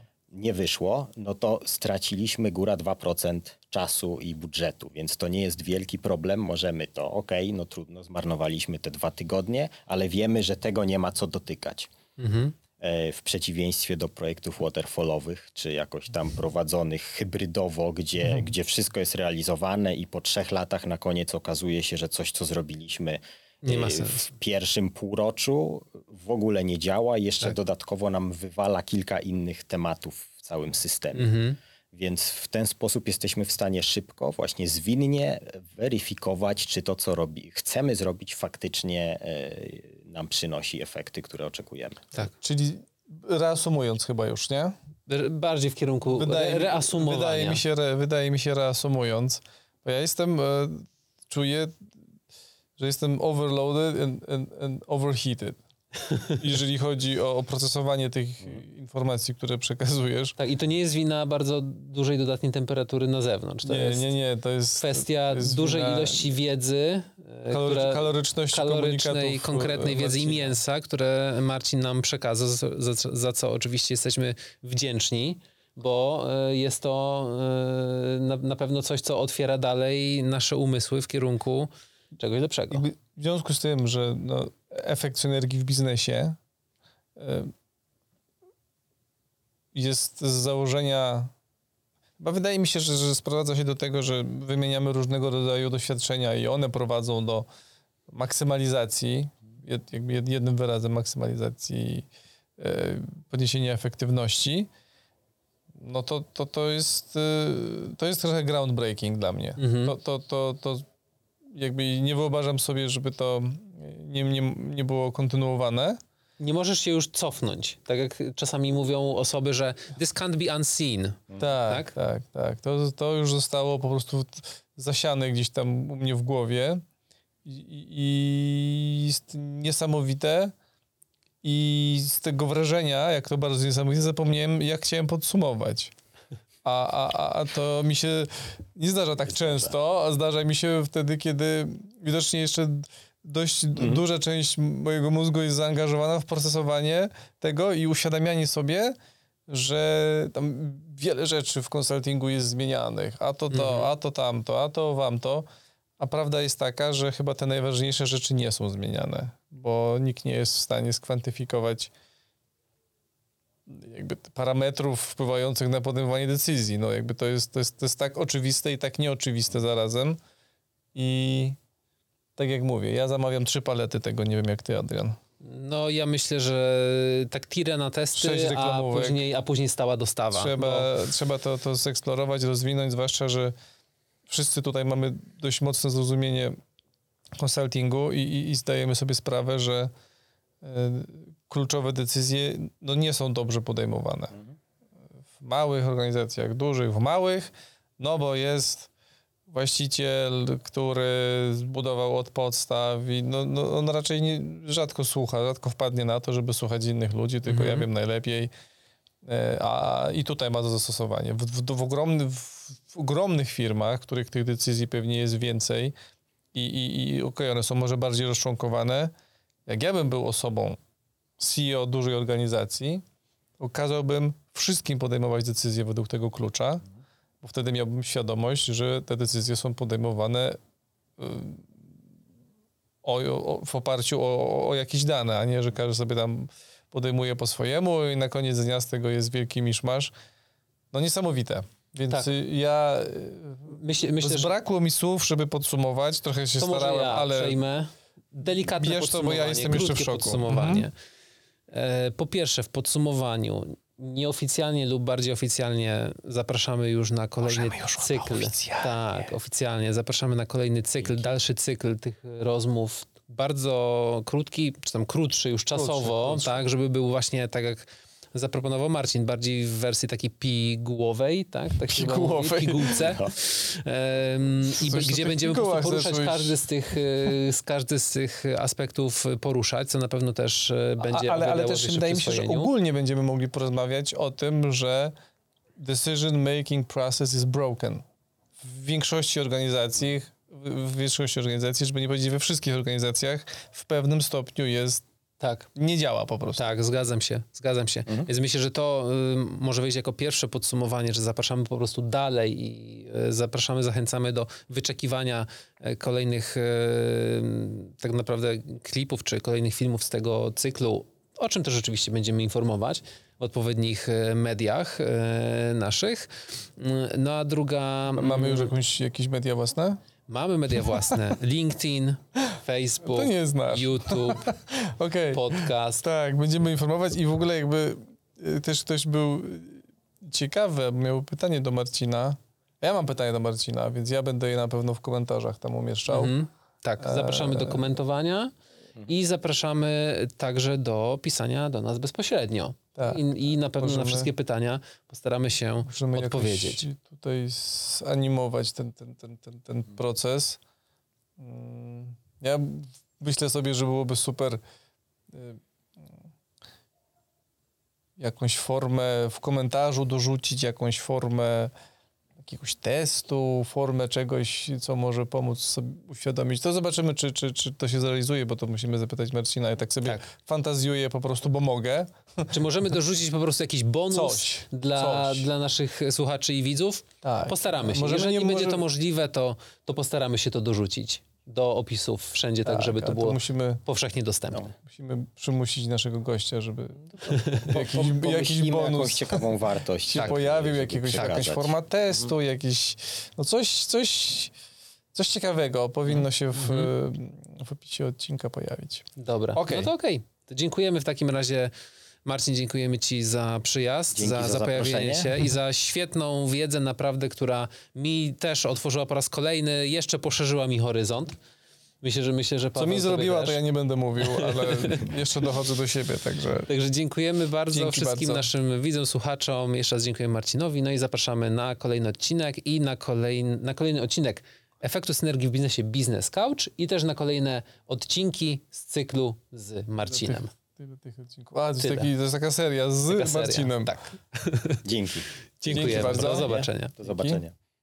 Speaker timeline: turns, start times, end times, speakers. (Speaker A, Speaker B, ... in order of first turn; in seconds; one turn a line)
Speaker A: 0.3-11.9
Speaker B: 12.2-12.6
Speaker A: 12.8-31.3
Speaker B: 23.6-24.3
Speaker B: 31.1-31.6
Speaker A: 31.9-42.1
Speaker C: 42.4-44.7
Speaker B: 45.1-47.6
Speaker C: 46.1-51.8
Speaker C: 52.8-55.6
Speaker C: 56.4-60.4
Speaker B: 60.4-64.1
Speaker C: 63.6-66.3
Speaker B: 64.8-82.8
Speaker C: 67.5-70.6
Speaker C: 82.7-86.4
Speaker C: 87.2-87.5
Speaker C: 89.7-91.3
Speaker C: 92.2-97.5
Speaker C: 98.1-102.1
Speaker C: 102.6-104.7
Speaker C: 105.8-110.8
Speaker B: 109.6-110.0
Speaker C: 111.5-116.0
Speaker B: 116.4-121.9
Speaker C: 121.4-126.8
Speaker C: 127.5-130.5
Speaker C: 131.4-135.9
Speaker C: 136.6-149.0
Speaker A: 139.2-139.8
Speaker A: 143.8-144.0
Speaker C: 149.5-155.5
Speaker B: 153.5-153.9
Speaker C: 156.0-161.9
Speaker C: 163.7-170.2
Speaker C: 170.9-171.6
Speaker C: 172.4-175.2
Speaker B: 175.4-180.9
Speaker C: 178.2-179.2
Speaker C: 180.3-183.5
Speaker C: 184.3-186.6
Speaker C: 187.4-189.9
Speaker C: 190.6-194.3
Speaker C: 195.4-198.9
Speaker C: 199.5-208.5
Speaker B: 207.4-207.9
Speaker C: 209.2-215.9
Speaker C: 216.5-219.1
Speaker C: 219.7-220.8
Speaker C: 221.4-223.0
Speaker C: 223.6-226.8
Speaker C: 227.4-230.6
Speaker C: 231.2-231.7
Speaker C: 233.0-240.1
Speaker C: 240.9-247.6
Speaker B: 243.7-244.5
Speaker B: 246.6-250.9
Speaker C: 248.7-250.9
Speaker B: 251.7-282.7
Speaker C: 257.6-258.9
Speaker A: 261.0-261.4
Speaker C: 265.7-266.6
Speaker C: 271.9-273.1
Speaker A: 273.0-273.3
Speaker C: 274.8-276.6
Speaker C: 281.0-285.1
Speaker C: 285.8-288.0
Speaker C: 288.6-295.0
Speaker B: 295.4-295.7
Speaker C: 295.7-296.7
Speaker B: 296.6-318.7
Speaker C: 318.1-320.0
Speaker B: 320.3-324.6
Speaker C: 320.8-321.2
Speaker C: 323.1-336.3
Speaker B: 325.3-326.0
Speaker B: 336.1-338.5
Speaker C: 337.0-337.8
Speaker B: 339.1-346.8
Speaker C: 343.8-344.3
Speaker C: 345.9-350.6
Speaker C: 351.4-354.6
Speaker C: 355.3-355.6
Speaker C: 358.2-361.7
Speaker C: 362.4-372.5
Speaker B: 372.5-384.6
Speaker C: 374.1-375.5
Speaker C: 377.2-378.8
Speaker C: 382.6-383.8
Speaker C: 384.9-387.0
Speaker A: 387.1-392.3
Speaker B: 387.3-387.7
Speaker C: 387.6-389.5
Speaker C: 390.1-394.5
Speaker C: 395.1-399.9
Speaker B: 396.1-396.9
Speaker B: 399.2-401.7
Speaker B: 402.2-411.4
Speaker A: 404.1-405.3
Speaker B: 412.0-413.6
Speaker C: 412.8-416.7
Speaker B: 414.2-415.1
Speaker B: 416.7-430.5
Speaker C: 417.7-418.5
Speaker C: 430.1-433.9
Speaker B: 431.8-432.1
Speaker B: 433.1-434.9
Speaker A: 434.9-437.6
Speaker B: 435.6-436.9
Speaker C: 435.7-436.5
Speaker C: 437.0-437.4